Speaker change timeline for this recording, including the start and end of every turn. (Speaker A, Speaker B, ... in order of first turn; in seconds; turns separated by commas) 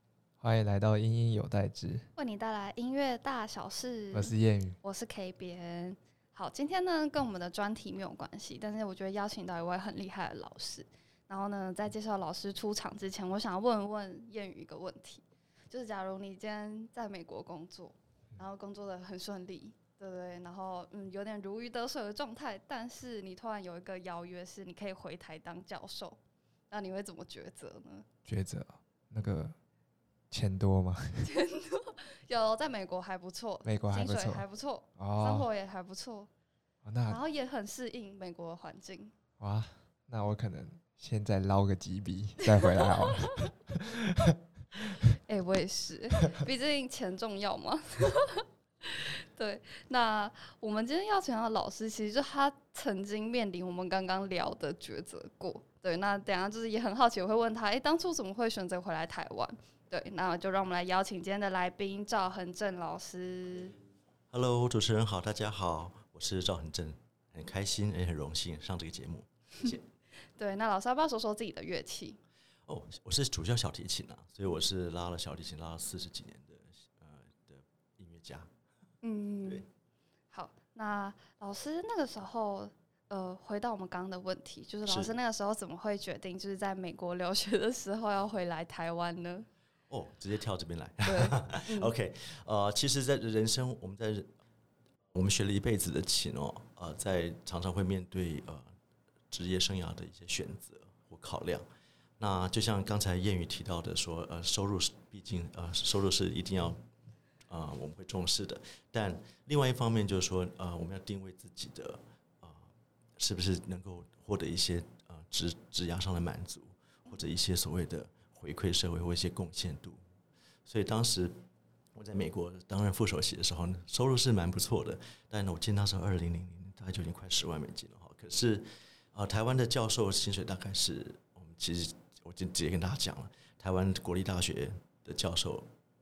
Speaker A: 0.4-2.1, Speaker B: 2.1-26.2, Speaker A: 4.1-4.8, Speaker B: 26.7-28.1, Speaker A: 28.2-29.6, Speaker A: 30.3-31.3, Speaker B: 31.2-36.3, Speaker A: 33.6-34.4, Speaker A: 35.0-35.5, Speaker A: 36.8-37.2, Speaker B: 37.1-39.1, Speaker A: 39.4-44.3, Speaker B: 45.0-63.8, Speaker C: 64.3-69.9, Speaker B: 70.4-72.2, Speaker C: 72.7-78.5, Speaker B: 79.0-79.7, Speaker B: 80.3-89.5, Speaker C: 84.8-85.1, Speaker C: 89.9-94.3, Speaker B: 91.0-91.9, Speaker C: 95.1-98.7, Speaker C: 99.3-101.7, Speaker C: 102.2-106.8, Speaker C: 107.5-112.7, Speaker C: 113.2-120.0, Speaker C: 120.7-121.3, Speaker C: 121.9-135.7